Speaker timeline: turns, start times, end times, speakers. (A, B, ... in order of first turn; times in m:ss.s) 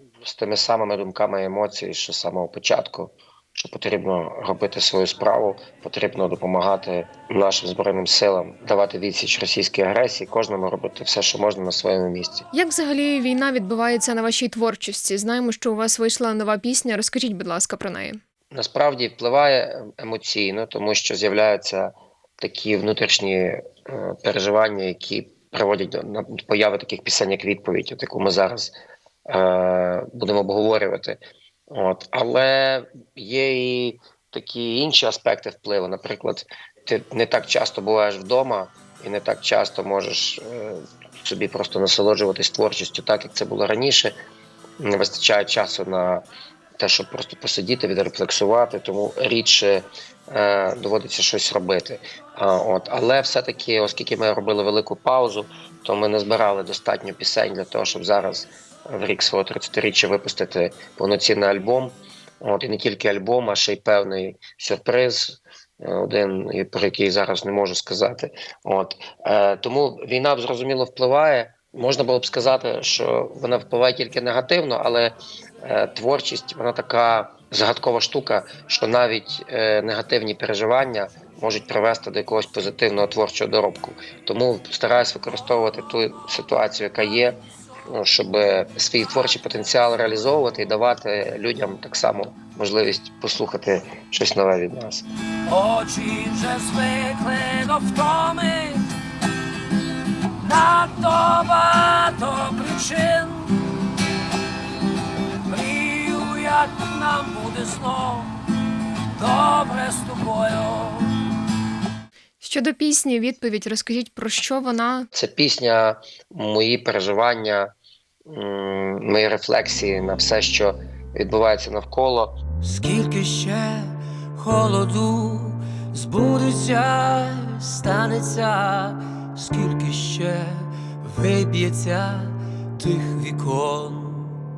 0:00.2-0:12.4 A
0:12.5-0:18.2 B
0:18.5-0:28.7 A
0:29.3-0:31.2 A
0:31.7-0:44.1 A
0:44.8-0:46.2 A
0:46.8-1:35.0 A
1:35.4-1:38.9 C
1:40.4-1:43.7 C
1:45.4-1:48.3 C
1:49.2-1:51.2 C
1:52.4-1:55.1 B
1:55.1-1:57.7 A
1:58.2-2:02.4 A
2:02.6-2:14.4 C